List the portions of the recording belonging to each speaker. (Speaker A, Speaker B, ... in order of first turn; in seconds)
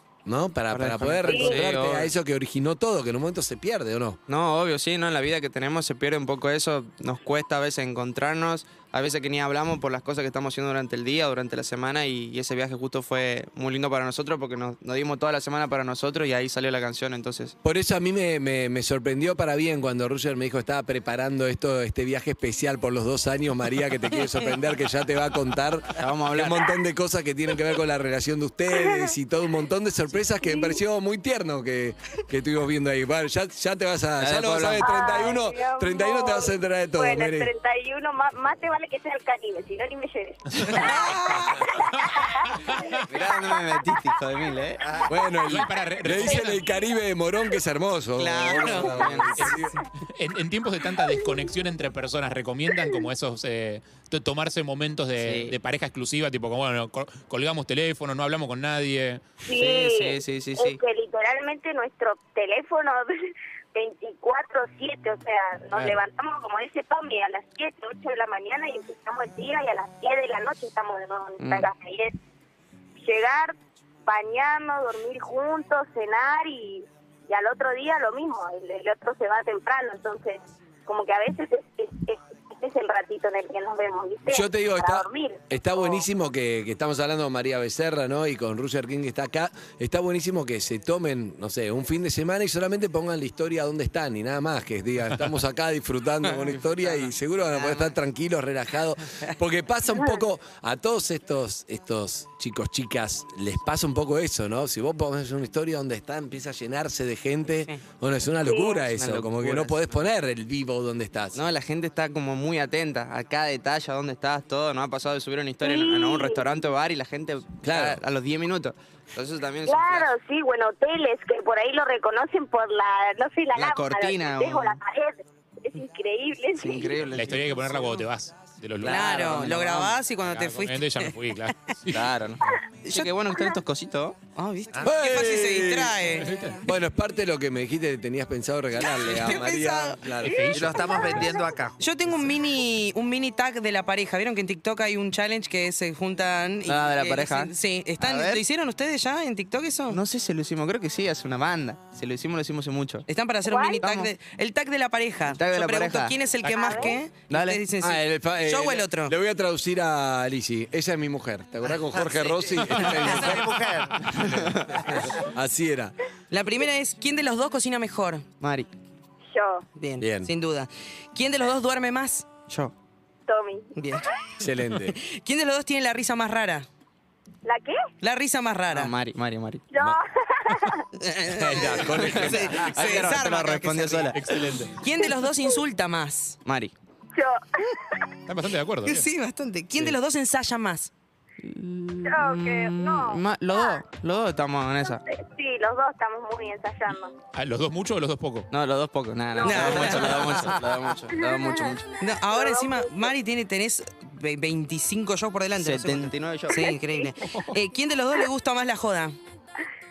Speaker A: 0.3-4.2, 17.6-37.5, 45.1-49.8, 84.3-111.4, 117.6-118.0, 134.8-136.1, 136.6-140.6, 157.8-165.9, 170.0-170.3, 174.4-174.9, 181.3-182.7
Speaker B: 0.7-2.1, 4.3-17.6, 26.0-26.8, 34.2-35.3, 43.1-44.8, 48.4-49.5, 55.2-55.5, 59.5-60.8, 71.4-71.7, 108.9-109.9, 111.3-120.2, 123.5-124.8, 126.6-128.0, 128.8-130.0, 131.9-134.2, 146.7-148.4, 149.9-153.1, 153.8-154.1, 155.3-156.2, 156.8-157.6, 164.1-164.8, 168.4-168.7, 172.5-172.7, 178.7-179.7, 181.8-184.6, 186.4-186.7, 191.4-195.0, 198.5-201.9, 205.6-206.7
Speaker C: 1.2-1.6, 28.7-29.1, 30.4-30.8, 34.8-44.1, 46.2-46.8, 59.4-72.1, 73.0-86.0, 108.4-108.8, 115.6-116.5, 119.7-127.1, 153.4-153.8, 156.5-157.0, 169.3-169.7, 173.3-173.7, 177.4-177.8, 179.7-180.8, 187.2-187.4, 192.0-193.8, 195.1-197.1, 199.3-200.5, 201.1-203.1, 206.6-207.1
Speaker D: 40.7-41.6, 48.2-49.0, 128.8-131.2, 132.8-133.1, 134.4-136.4, 138.8-140.3, 141.8-150.0, 153.1-159.1, 166.3-168.2, 169.8-172.3, 173.8-174.1, 174.9-176.7, 178.0-178.9, 181.0-184.1, 184.8-186.4, 188.8-190.9, 199.4-200.3, 202.0-209.2
Speaker E: 42.0-43.1, 45.5-46.6, 49.4-59.2, 127.1-129.6, 130.2-132.1, 136.1-136.6, 140.2-141.2, 184.1-184.8, 188.3-189.1, 197.3-198.5, 207.2-207.5
Speaker F: 44.8-45.2, 134.8-135.0, 140.5-141.8, 161.9-165.1